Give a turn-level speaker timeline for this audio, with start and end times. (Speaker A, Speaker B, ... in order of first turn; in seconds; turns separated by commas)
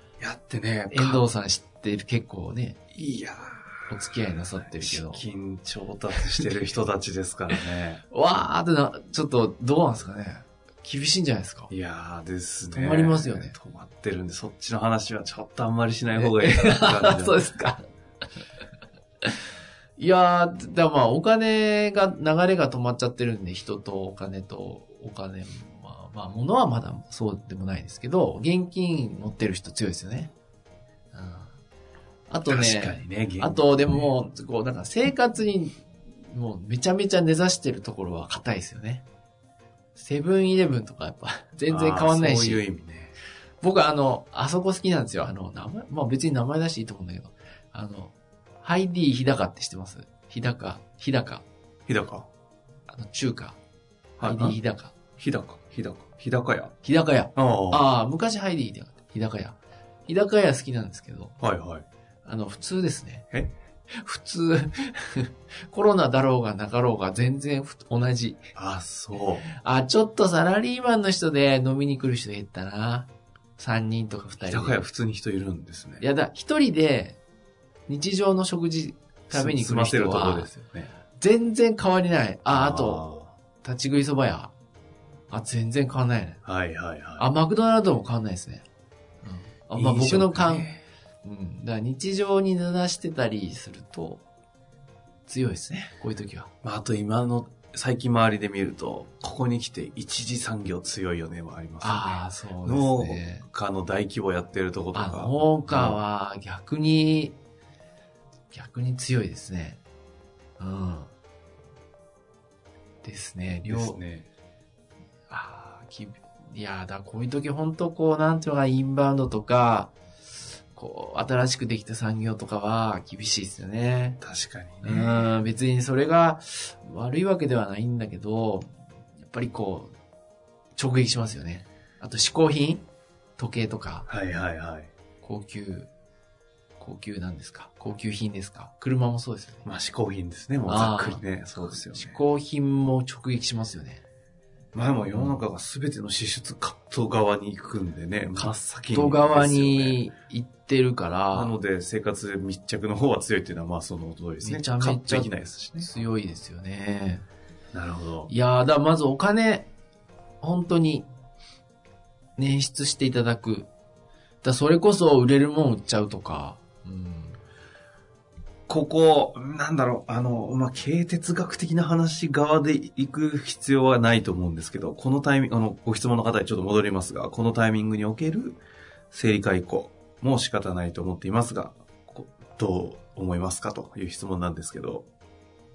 Speaker A: 0.2-1.2, Speaker B: 0.9-2.8, Speaker A: 2.9-4.2, Speaker B: 3.9-5.2, Speaker A: 4.7-8.0, Speaker B: 8.1-11.7, Speaker A: 11.7-17.4, Speaker B: 12.7-13.6, Speaker B: 16.1-17.8, Speaker B: 20.0-30.3, Speaker B: 31.1-31.5, Speaker B: 32.3-39.0, Speaker A: 32.5-34.0, Speaker B: 39.9-42.6, Speaker A: 41.7-43.1, Speaker B: 43.6-51.5, Speaker A: 51.9-52.3, Speaker B: 52.9-53.6, Speaker A: 54.2-54.6, Speaker B: 54.2-54.9, Speaker A: 55.2-56.8, Speaker B: 56.8-61.4, Speaker A: 57.4-57.9, Speaker A: 61.4-61.9, Speaker B: 62.2-63.3, Speaker B: 63.9-68.5, Speaker A: 68.5-69.4, Speaker B: 69.4-74.8, Speaker A: 74.4-76.0, Speaker B: 76.0-77.2, Speaker B: 77.9-80.5, Speaker A: 79.3-80.9, Speaker B: 81.2-83.0, Speaker A: 82.5-83.4, Speaker B: 83.6-84.5, Speaker B: 85.3-86.4, Speaker A: 86.4-87.2, Speaker B: 87.2-88.7, Speaker B: 89.2-90.7, Speaker A: 89.8-90.8, Speaker B: 91.2-94.2, Speaker B: 95.2-96.5, Speaker A: 96.6-106.0, Speaker B: 101.8-103.4, Speaker B: 104.9-107.4, Speaker B: 108.5-109.8, Speaker B: 110.6-111.1, Speaker B: 113.0-114.0, Speaker A: 113.7-114.3, Speaker B: 115.3-119.9, Speaker B: 120.7-124.2, Speaker A: 124.2-125.4, Speaker B: 124.8-129.9, Speaker B: 130.8-132.8, Speaker B: 133.4-134.1, Speaker A: 134.1-134.9, Speaker B: 135.2-135.9, Speaker B: 136.8-139.6, Speaker A: 139.6-142.2, Speaker B: 140.6-144.0, Speaker A: 144.7-150.0, Speaker B: 148.4-151.5, Speaker A: 151.3-155.9, Speaker B: 154.4-157.2, Speaker A: 157.7-158.3, Speaker B: 158.3-159.7, Speaker B: 160.4-161.1, Speaker B: 162.4-163.7, Speaker B: 164.4-167.4, Speaker A: 168.7-178.6, Speaker A: 179.1-185.1